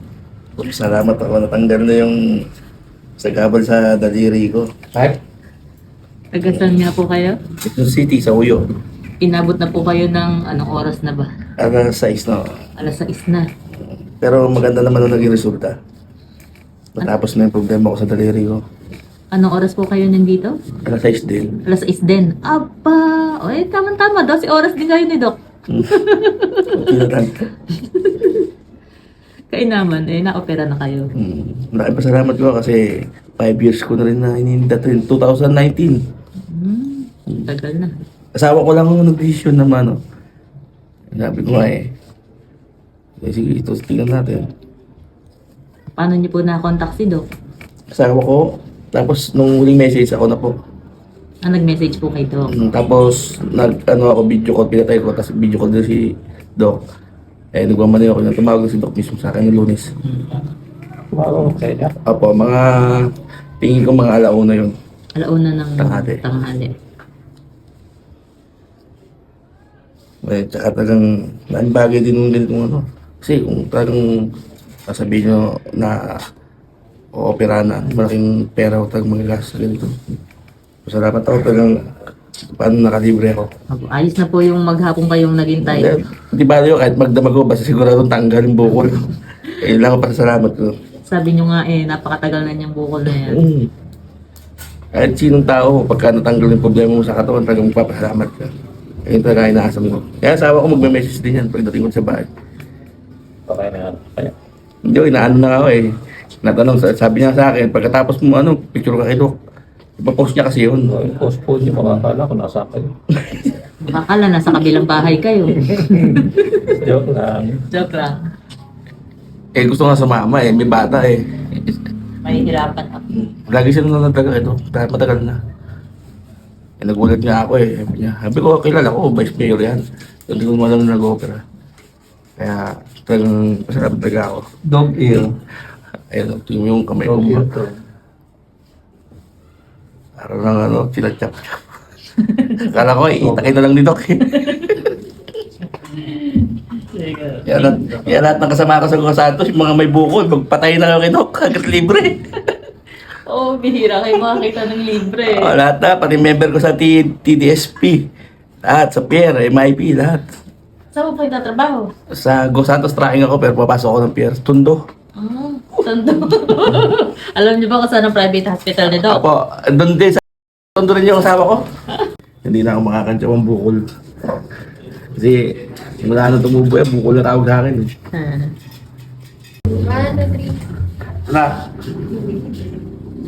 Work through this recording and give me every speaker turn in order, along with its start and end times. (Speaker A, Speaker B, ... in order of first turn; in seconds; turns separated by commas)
Speaker A: 0.6-2.2, Speaker A: 3.2-4.9, Speaker B: 6.3-7.4, Speaker A: 6.5-6.9, Speaker A: 7.6-8.7, Speaker B: 9.2-11.3, Speaker A: 11.6-12.5, Speaker B: 12.8-13.5, Speaker A: 14.2-15.8, Speaker A: 17.0-18.6, Speaker B: 19.3-20.5, Speaker A: 20.9-21.6, Speaker B: 21.7-25.4, Speaker B: 25.9-26.9, Speaker A: 26.7-27.4, Speaker B: 27.8-28.4, Speaker B: 29.5-31.1, Speaker A: 31.1-36.0, Speaker B: 36.5-37.9, Speaker A: 38.4-40.0, Speaker A: 41.1-41.9, Speaker A: 43.2-44.5, Speaker B: 46.0-47.2, Speaker A: 47.9-50.5, Speaker B: 51.4-52.5, Speaker A: 52.5-56.8, Speaker A: 57.5-59.9, Speaker C: 61.1-62.0, Speaker A: 62.0-63.1, Speaker A: 63.6-64.7, Speaker B: 65.2-66.7, Speaker A: 65.8-66.2, Speaker A: 70.2-74.3, Speaker A: 74.9-76.2, Speaker A: 77.2-79.9, Speaker A: 80.8-81.9, Speaker A: 82.6-83.5, Speaker B: 83.7-86.0, Speaker A: 85.7-89.1, Speaker A: 89.6-90.7, Speaker B: 91.1-93.4, Speaker A: 93.1-93.7, Speaker A: 94.9-98.5, Speaker A: 99.1-102.3, Speaker C: 103.5-104.3, Speaker A: 104.8-109.3, Speaker A: 110.0-111.0, Speaker C: 110.9-112.9, Speaker A: 113.1-113.5, Speaker B: 113.8-116.8, Speaker C: 115.6-117.6, Speaker B: 117.7-118.2, Speaker A: 119.5-121.8, Speaker B: 122.2-123.1, Speaker A: 123.2-125.4, Speaker A: 126.8-131.4, Speaker A: 132.4-134.5, Speaker C: 134.7-135.3, Speaker A: 136.1-137.5, Speaker C: 137.0-137.8, Speaker A: 140.2-141.6, Speaker B: 142.2-142.8, Speaker A: 142.6-144.9, Speaker C: 143.2-143.5, Speaker B: 144.3-144.8, Speaker B: 145.8-147.8, Speaker A: 147.4-152.3, Speaker B: 153.2-155.6, Speaker A: 155.3-158.1, Speaker A: 158.6-160.3, Speaker B: 160.9-161.9, Speaker A: 162.1-164.8, Speaker B: 165.2-169.2, Speaker A: 168.9-171.7, Speaker A: 172.4-173.8, Speaker A: 175.2-175.4, Speaker A: 176.0-177.9, Speaker B: 178.1-178.5, Speaker A: 181.3-181.8